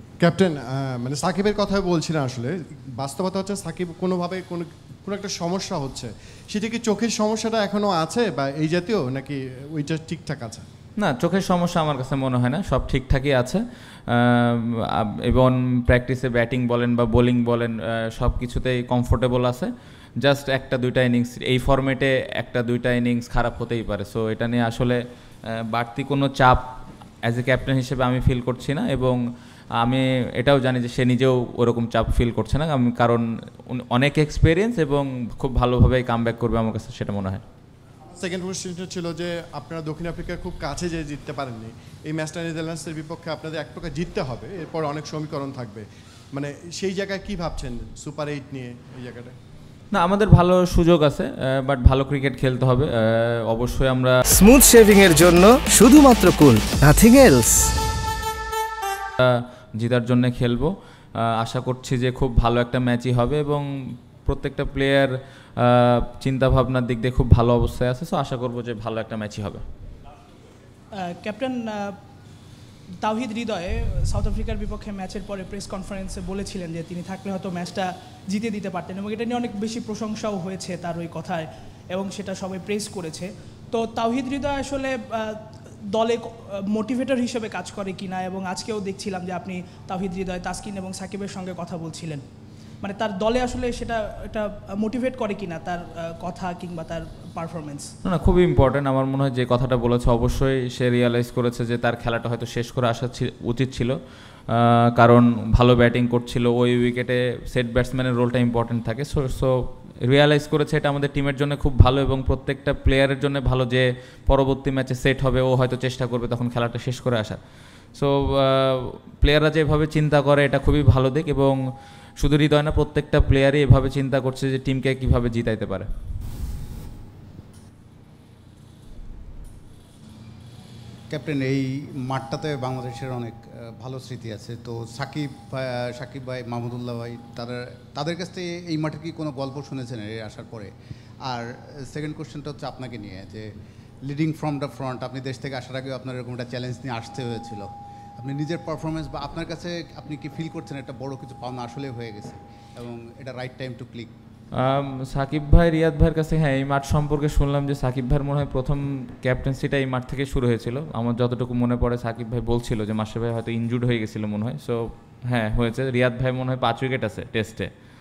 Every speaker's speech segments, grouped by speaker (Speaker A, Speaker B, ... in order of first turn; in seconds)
Speaker A: 0.2-10.7, 38.1-49.4
Speaker B: 11.0-19.7, 20.2-25.0, 25.7-26.6, 27.2-29.2, 29.8-37.4, 49.9-54.2, 59.2-63.7, 64.3-69.6, 98.0-104.0, 104.5-117.4, 118.0-121.6, 122.2-125.9, 154.6-167.7
Speaker C: 54.3-57.7
Speaker D: 71.0-72.0, 73.0-92.2, 92.8-97.9
Speaker E: 131.1-140.7, 141.3-143.5, 144.1-154.1